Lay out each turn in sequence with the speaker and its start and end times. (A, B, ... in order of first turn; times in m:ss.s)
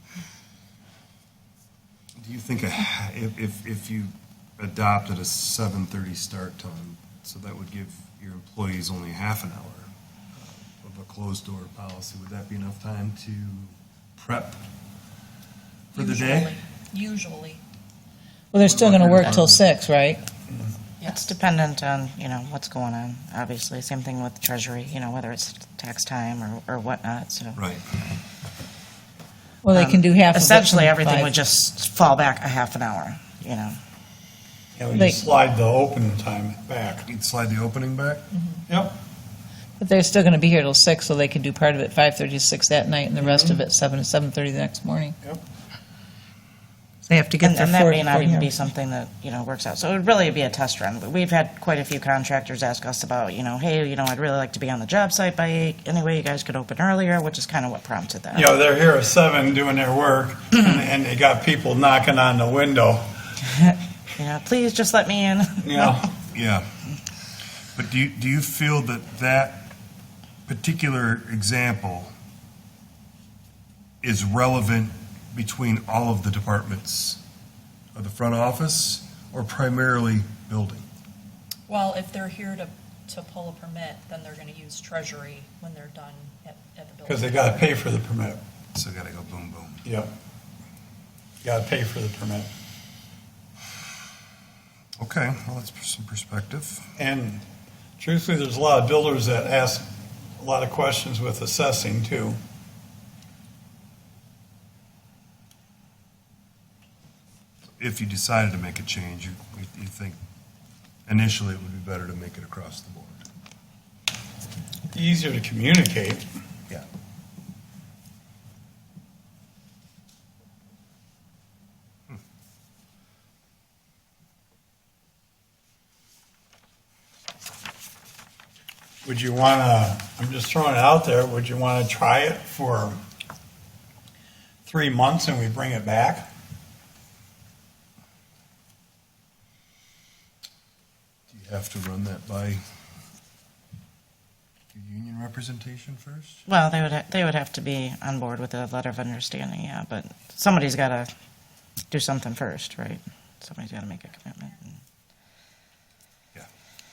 0:02.2-0:14.6 A
0:15.9-0:16.6 A
0:15.9-0:17.6 B
0:18.5-0:20.2 C
0:18.6-0:19.6 A
0:21.0-0:27.6 D
0:27.6-0:27.8 A
0:29.6-0:31.4 C
0:29.7-0:33.8 D
0:34.8-0:37.1 E
0:34.9-0:35.2 C
0:37.1-0:38.3 A
0:38.7-0:39.0 E
0:39.8-0:45.2 C
0:43.2-0:43.6 E
0:47.1-0:48.5 C
0:47.4-0:58.5 D
0:58.3-1:03.0 E
1:03.6-1:05.9 D
1:05.6-1:06.1 E
1:06.3-1:06.7 A
1:07.8-1:09.7 A
1:10.5-1:12.1 A
1:14.0-1:17.2 A
1:18.0-1:20.9 A
1:21.7-1:27.8 B
1:27.1-1:28.4 E
1:28.7-1:29.8 A
1:29.8-1:30.1 E
1:31.4-1:32.5 E
1:35.0-1:36.9 A
1:37.0-1:37.4 E
1:38.0-1:42.4 E
1:47.8-1:50.2 A
1:51.1-1:53.2 A
1:54.9-1:56.2 E
2:09.0-2:13.0 E
2:14.7-2:16.3 E
2:21.3-2:22.6 A
2:24.7-2:26.4 A
2:26.5-2:31.1 D
2:31.9-2:34.8 D